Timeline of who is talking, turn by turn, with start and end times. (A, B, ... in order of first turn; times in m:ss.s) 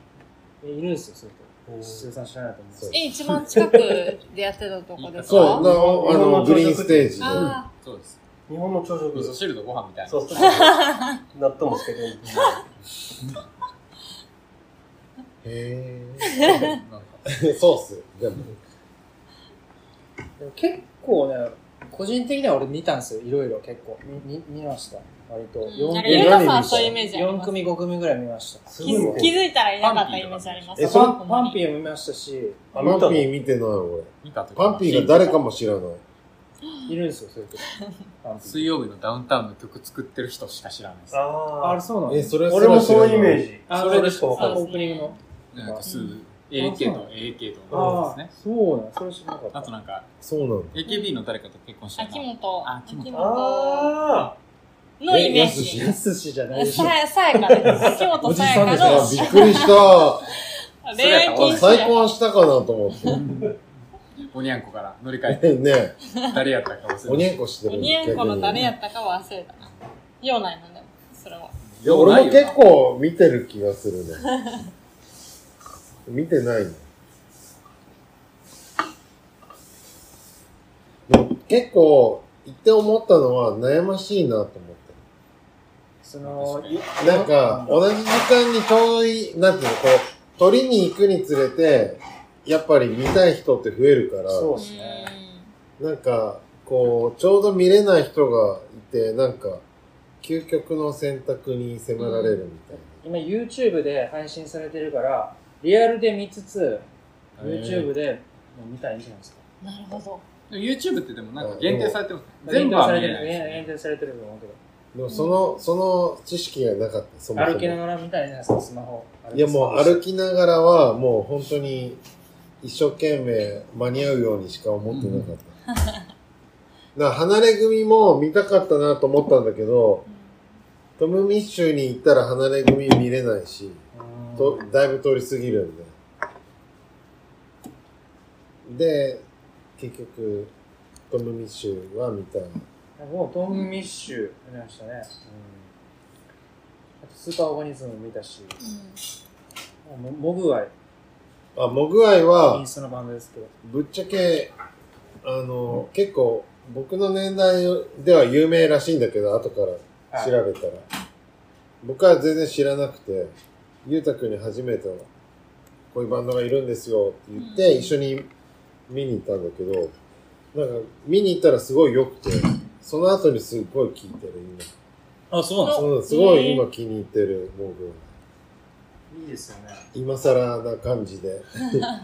0:00.6-0:03.0 A
0:01.7-0:02.0 B
0:02.8-0:03.1 C
0:02.9-0:05.7 D
0:03.5-0:04.0 B
0:05.0-0:05.7 E
0:05.2-0:07.6 C
0:05.6-0:07.4 B
0:07.2-0:07.7 D
0:07.4-0:08.2 E
0:08.5-0:09.4 B
0:09.1-0:10.7 E
0:10.1-0:12.3 B
0:10.4-0:11.2 D
0:12.2-0:12.6 E
0:15.4-0:16.7 C
0:16.3-0:16.8 D
0:16.5-0:17.2 E
0:17.2-0:18.5 C
0:20.4-0:29.3 A
0:25.6-0:27.6 D
0:26.0-0:27.0 C
0:28.7-0:29.4 B
0:28.8-0:31.6 D
0:29.8-0:30.8 E
0:30.8-0:31.2 C
0:30.8-0:32.7 A
0:32.7-0:33.3 B
0:32.8-0:36.0 C
0:34.2-0:35.4 E
0:36.9-0:37.7 A
0:38.2-0:38.7 A
0:38.4-0:41.2 E
0:41.1-0:41.8 B
0:41.6-0:42.4 A
0:42.1-0:43.4 C
0:42.5-0:44.6 B
0:43.7-0:45.9 A
0:43.7-0:44.5 E
0:44.4-0:45.2 D
0:45.5-0:48.3 E
0:45.8-0:46.2 D
0:46.5-0:47.1 A
0:47.7-0:49.7 A
0:47.7-0:48.0 B
0:49.5-0:50.1 E
0:50.2-0:50.8 C
0:50.7-0:53.3 E
0:50.8-0:51.2 D
0:52.0-0:54.0 D
0:53.1-0:54.4 B
0:55.0-0:55.9 D
0:55.1-0:56.0 C
0:55.6-0:56.9 A
0:56.5-0:59.8 D
0:57.6-0:58.0 B
0:58.2-0:59.6 A
0:58.7-1:00.2 C
1:00.8-1:02.1 D
1:01.0-1:01.9 E
1:01.4-1:03.2 C
1:03.0-1:03.5 E
1:04.3-1:05.6 E
1:05.3-1:06.0 C
1:06.2-1:07.4 E
1:07.0-1:08.7 C
1:07.6-1:09.7 D
1:10.2-1:11.5 D
1:11.7-1:12.6 E
1:11.8-1:14.3 C
1:16.0-1:16.8 C
1:21.1-1:25.0 C
1:26.0-1:27.8 A
1:26.2-1:26.8 E
1:27.0-1:34.5 C
1:34.3-1:35.1 A
1:34.6-1:35.5 D
1:35.8-1:39.6 C
1:40.2-1:43.0 C
1:42.0-1:42.4 D
1:43.0-1:46.8 A
1:47.4-1:49.4 A
1:47.4-1:47.9 C
1:49.6-1:50.2 D
1:50.5-1:53.7 E
1:51.4-1:52.0 C
1:52.4-1:54.6 A
1:54.9-1:57.8 C
1:55.1-1:55.4 D
1:57.3-2:00.0 A
1:59.3-2:02.0 C
2:02.6-2:05.5 C
2:04.9-2:05.3 E
2:06.9-2:10.0 C
2:11.0-2:13.8 C
2:13.9-2:14.7 A
2:14.4-2:15.9 C
2:18.6-2:19.2 C
2:19.8-2:20.5 C
2:21.1-2:22.6 C
2:23.0-2:25.7 A
2:27.0-2:28.6 A
2:28.6-2:29.0 D
2:29.8-2:30.7 A
2:31.6-2:32.6 C
2:32.5-2:33.5 A
2:33.6-2:34.5 C
2:35.2-2:40.8 C
2:40.1-2:40.4 A
2:41.8-2:43.3 C
2:43.8-2:45.1 C
2:45.9-2:48.3 C
2:47.4-2:47.9 D
2:48.9-2:49.9 C
2:50.5-2:54.7 C
2:55.3-2:55.9 A
2:55.6-2:56.6 D
2:55.7-2:58.1 C
2:59.1-2:59.8 A
2:59.9-3:01.9 C